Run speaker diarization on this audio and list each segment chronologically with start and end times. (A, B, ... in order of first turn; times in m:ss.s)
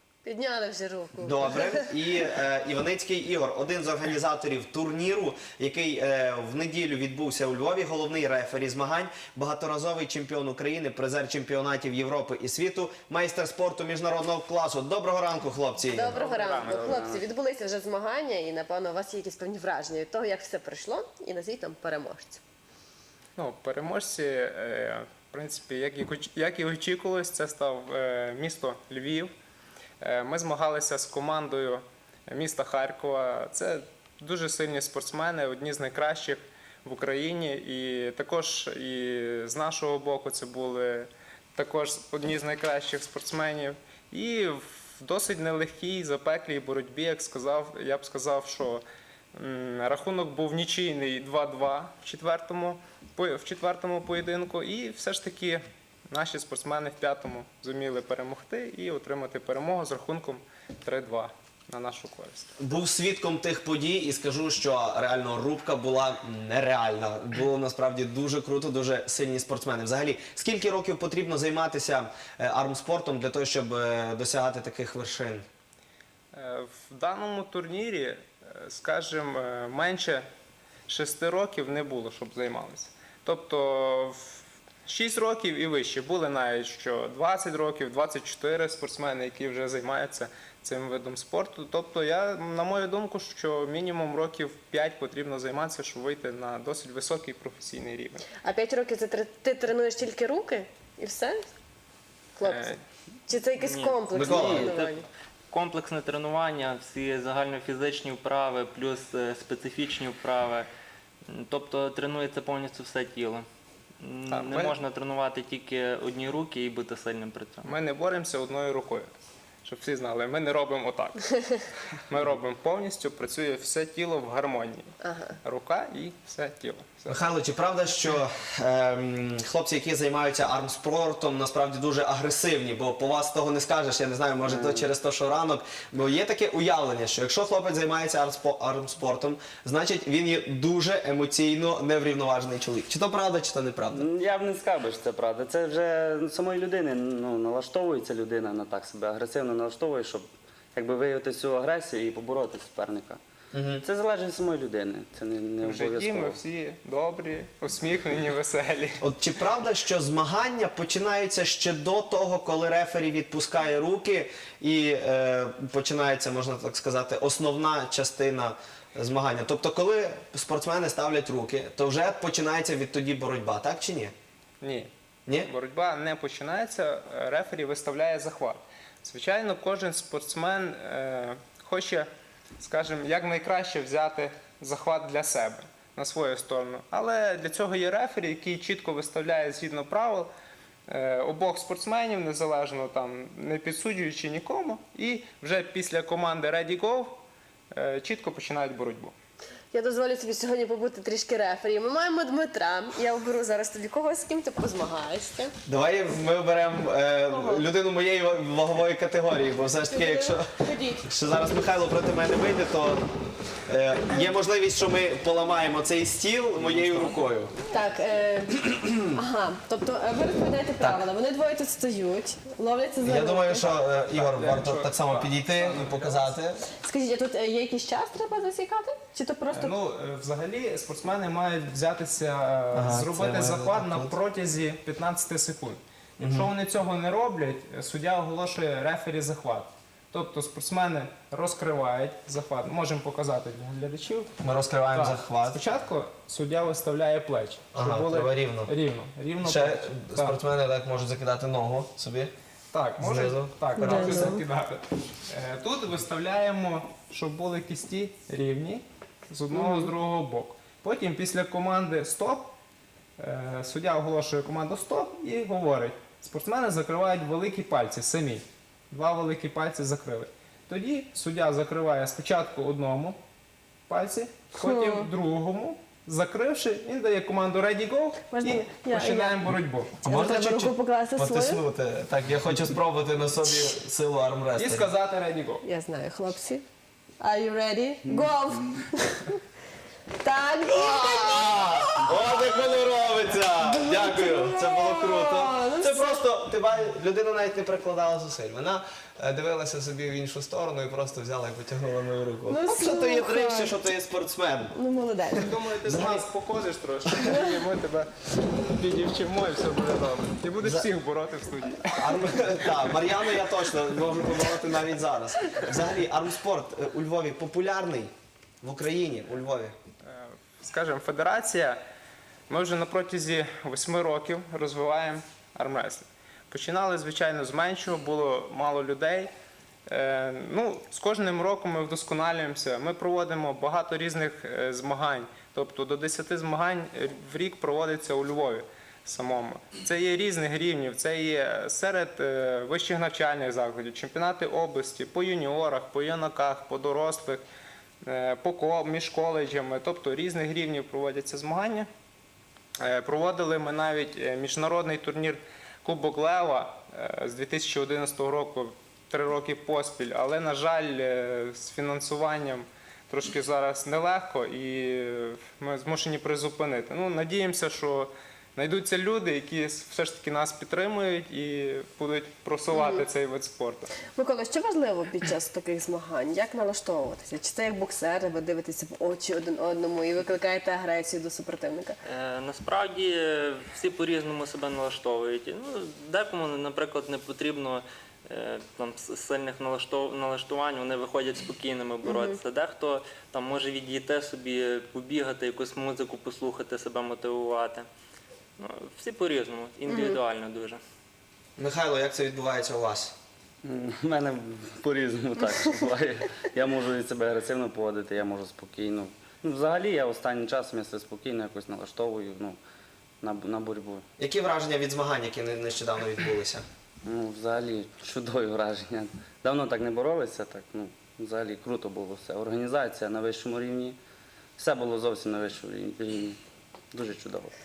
0:00.2-0:01.8 A
0:01.2-0:16.1 B
0:15.9-0:22.4 A
0:16.1-0:17.0 C
0:16.7-0:17.2 D
0:23.4-0:29.3 C
0:30.0-0:48.8 C
0:49.3-1:02.5 C
1:02.6-1:15.4 B
1:16.3-1:20.2 C
1:20.9-1:38.2 C
1:38.4-1:41.4 A
1:42.4-1:42.7 A
1:42.4-1:42.8 C
1:43.3-1:45.0 A
1:43.6-1:50.7 E
1:44.1-1:44.7 B
1:51.3-1:53.4 E
1:54.0-1:57.7 E
1:54.3-1:54.8 C
1:57.6-1:59.1 C
1:59.6-2:01.3 C
2:02.1-2:04.9 C
2:05.0-2:05.4 A
2:05.4-2:07.2 C
2:07.1-2:24.0 B
2:14.4-2:14.9 D
2:23.9-2:33.2 D
2:33.5-2:33.8 B
2:33.8-2:36.4 D
2:35.6-2:39.0 C
2:39.0-2:54.1 B
2:54.6-3:02.1 C
3:02.6-3:10.3 C
3:10.9-3:19.1 C
3:19.7-3:25.5 A
3:25.6-3:33.0 B
3:27.3-3:27.6 A
3:29.9-3:31.0 A
3:33.7-3:37.5 B
3:36.6-3:37.3 E
3:37.7-3:43.8 A
3:38.6-3:38.9 B
3:40.8-3:41.1 B
3:43.0-3:46.6 B
3:44.1-3:46.3 C
3:46.7-3:49.8 A
3:49.5-4:04.3 C
3:52.7-3:54.1 B
3:56.2-3:56.5 B
4:04.4-4:05.6 B
4:04.9-4:10.4 C
4:07.7-4:08.7 B
4:09.4-4:12.3 B
4:12.7-4:22.5 C
4:13.0-4:14.4 B
4:13.8-4:14.4 A
4:19.5-4:19.9 A
4:23.2-4:33.2 C
4:33.9-4:40.0 C
4:34.6-4:35.1 A
4:38.3-4:39.4 A
4:40.0-4:44.9 B
4:40.0-4:41.6 A
4:44.5-4:45.6 C
4:45.6-4:46.6 A
4:47.2-4:49.4 A
4:50.2-4:52.7 A
4:50.6-5:04.8 B
4:53.6-4:56.2 A
5:02.5-5:03.8 A
5:04.7-5:05.6 A
5:05.3-5:06.2 B
5:05.4-5:13.2 C
5:07.2-5:07.6 A
5:10.6-5:10.9 B
5:11.8-5:18.1 B
5:18.6-5:19.7 B
5:20.0-5:21.8 C
5:22.5-5:29.3 C
5:29.9-5:47.4 C
5:48.0-5:51.9 C
5:52.8-6:13.9 C
6:12.7-6:13.0 A
6:14.1-6:22.0 A
6:22.0-6:37.9 E
6:32.0-6:32.4 A
6:38.6-6:40.8 E
6:39.9-6:40.2 A
6:41.6-6:43.1 B
6:43.6-6:52.6 D
6:53.2-6:54.0 D
6:54.2-6:56.6 B
6:57.0-7:04.0 D
7:04.6-7:06.4 D
7:06.9-7:07.5 D